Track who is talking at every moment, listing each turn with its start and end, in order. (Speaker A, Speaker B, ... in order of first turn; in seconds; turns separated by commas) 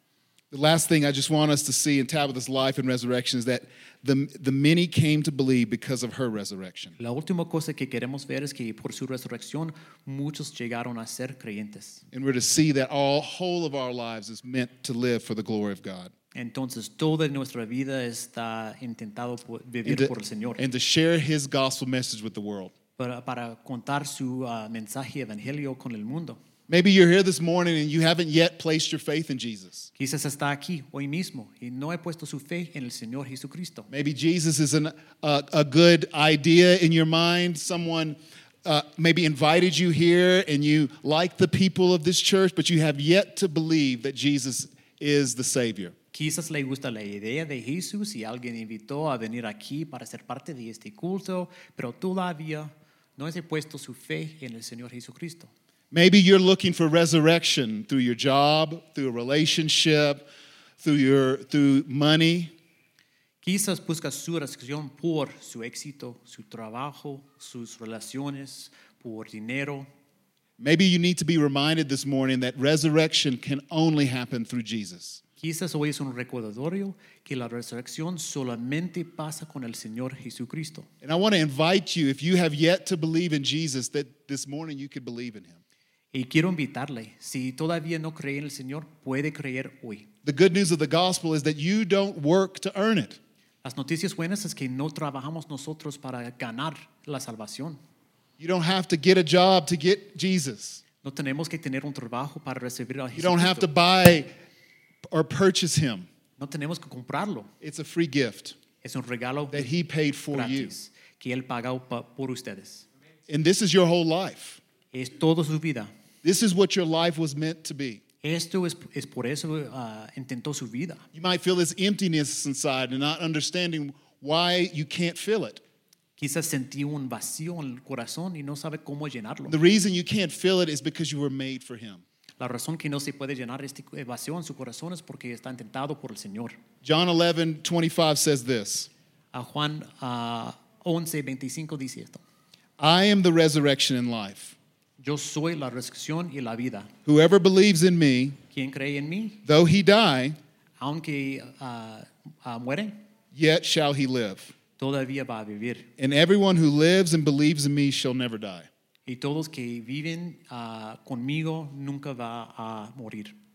Speaker A: 0.5-7.0, Speaker B: 7.0-12.0, Speaker A: 12.1-16.1, Speaker B: 16.3-20.6, Speaker A: 19.9-22.7, Speaker B: 23.0-26.4, Speaker A: 26.7-29.9, Speaker B: 30.0-33.9, Speaker A: 33.9-45.9, Speaker B: 46.1-55.5, Speaker A: 55.9-60.3, Speaker A: 60.8-62.5, Speaker B: 63.4-69.9, Speaker A: 70.6-75.2, Speaker B: 75.4-80.9, Speaker A: 81.0-85.6, Speaker B: 86.1-90.1, Speaker A: 90.2-93.2, Speaker B: 93.6-97.8, Speaker A: 98.4-100.8, Speaker B: 101.0-103.7, Speaker A: 103.1-104.3, Speaker A: 105.1-106.1, Speaker B: 106.4-107.5, Speaker A: 107.6-108.6, Speaker B: 108.8-109.7, Speaker A: 109.5-110.7, Speaker B: 110.3-112.9, Speaker A: 113.3-114.6, Speaker B: 114.9-115.9, Speaker A: 116.2-118.0, Speaker B: 118.2-121.0, Speaker A: 121.1-125.6, Speaker B: 126.2-129.6, Speaker A: 129.5-132.0, Speaker B: 132.4-136.6, Speaker A: 136.8-138.9, Speaker B: 139.3-142.2, Speaker A: 142.8-144.6, Speaker B: 145.0-146.9, Speaker A: 147.1-148.4, Speaker B: 148.5-149.4, Speaker A: 149.4-150.4, Speaker B: 150.8-153.0, Speaker A: 153.3-154.5, Speaker B: 154.8-155.9, Speaker A: 156.0-158.7, Speaker B: 159.1-163.3